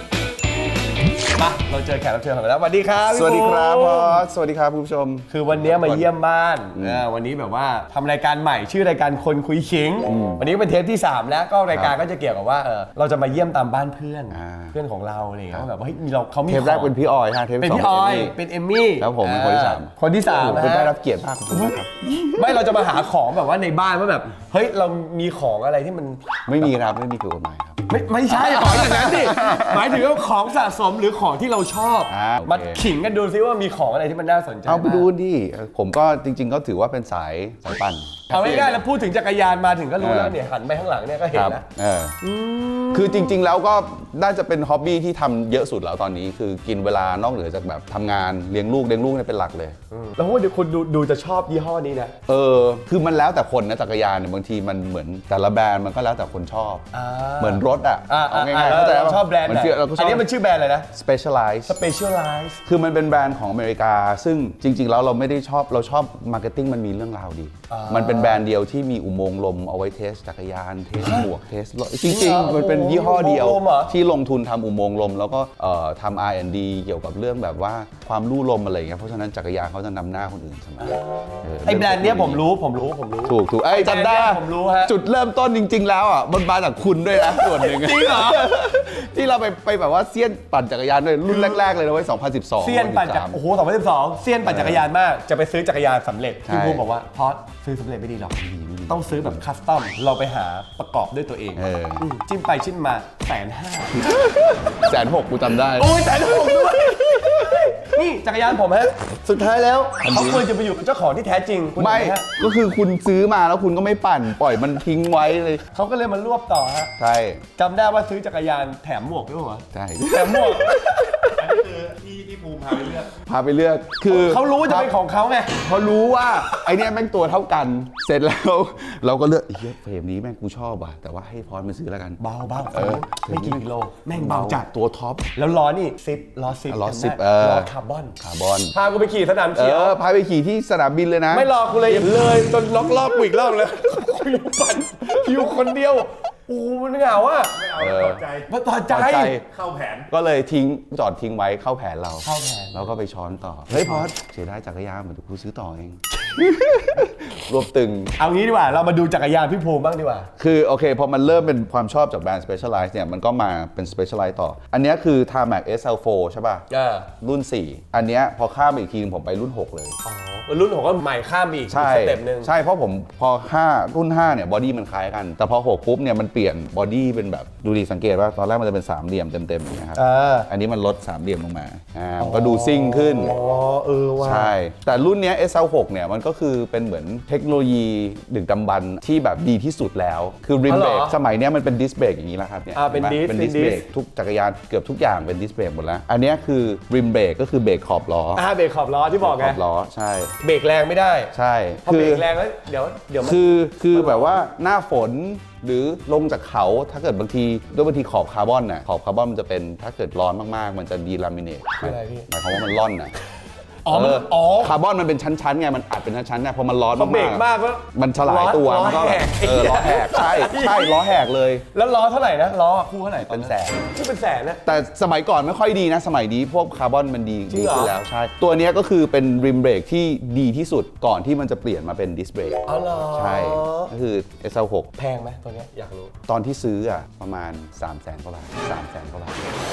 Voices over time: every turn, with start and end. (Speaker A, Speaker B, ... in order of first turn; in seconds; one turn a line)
Speaker A: 1.3-4.2
Speaker B: 3.1-6.1
Speaker A: 5.3-16.9
Speaker B: 6.8-7.0
Speaker B: 10.1-10.4
Speaker B: 11.7-12.0
Speaker B: 14.3-14.8
Speaker B: 16.5-18.4
Speaker A: 17.6-20.9
Speaker B: 19.0-22.5
Speaker A: 21.5-26.4
Speaker B: 26.5-30.1
Speaker A: 27.9-35.1
Speaker B: 32.1-32.9
Speaker B: 34.7-38.8
Speaker A: 38.3-41.6
Speaker B: 40.0-40.4
Speaker B: 41.3-42.2
Speaker A: 42.2-43.4
Speaker B: 42.9-49.8
Speaker A: 49.9-52.1
Speaker B: 52.3-56.9
Speaker A: 56.9-60.9
Speaker B: 57.4-60.3
Speaker B: 60.9-61.8
Speaker A: 61.7-62.6
Speaker B: 62.6-82.4
Speaker A: 67.7-68.5
Speaker A: 71.0-71.3
Speaker A: 72.1-73.9
Speaker A: 80.8-84.9
Speaker B: 83.3-93.4
Speaker A: 87.3-88.5
Speaker A: 91.3-91.6
Speaker A: 92.6-104.3
Speaker B: 94.4-94.9
Speaker B: 96.5-96.8
Speaker B: 98.4-99.4
Speaker B: 101.6-102.1
Speaker B: 104.0-107.7
Speaker A: 105.7-112.3
Speaker B: 110.0-110.5
Speaker B: 111.8-115.7
Speaker A: 115.7-117.0
Speaker B: 117.0-117.4
Speaker A: 117.6-121.3
Speaker B: 119.7-121.6
Speaker C: 121.4-123.2
Speaker B: 123.1-124.9
Speaker A: 124.1-125.6
Speaker B: 125.5-135.3
Speaker A: 132.2-134.7
Speaker A: 135.2-138.2
Speaker B: 136.7-138.8
Speaker A: 138.7-140.0
Speaker B: 139.5-142.4
Speaker A: 141.3-147.7
Speaker C: 147.6-148.5
Speaker B: 147.8-148.3
Speaker A: 148.5-149.4
Speaker B: 148.9-149.5
Speaker C: 149.5-150.1
Speaker B: 150.1-158.2
Speaker A: 152.2-152.9
Speaker A: 153.7-154.1
Speaker A: 158.2-160.3
Speaker B: 160.4-170.0
Speaker A: 166.7-167.1
Speaker A: 170.1-172.5
Speaker B: 171.7-183.3
Speaker A: 179.9-180.5
Speaker A: 182.2-184.5
Speaker B: 184.2-198.4
Speaker A: 190.7-191.2
Speaker A: 192.7-193.9
Speaker A: 198.3-199.6
Speaker B: 199.2-200.4
Speaker A: 200.4-204.4
Speaker B: 201.3-202.3
Speaker B: 203.2-213.2
Speaker A: 211.8-212.3
Speaker A: 213.8-214.8
Speaker B: 213.9-221.7
Speaker A: 216.9-221.1
Speaker A: 221.7-224.7
Speaker B: 223.2-223.9
Speaker B: 224.7-234.9
Speaker A: 227.5-227.9
Speaker A: 232.7-233.9
Speaker A: 235.0-236.2
Speaker B: 236.3-239.5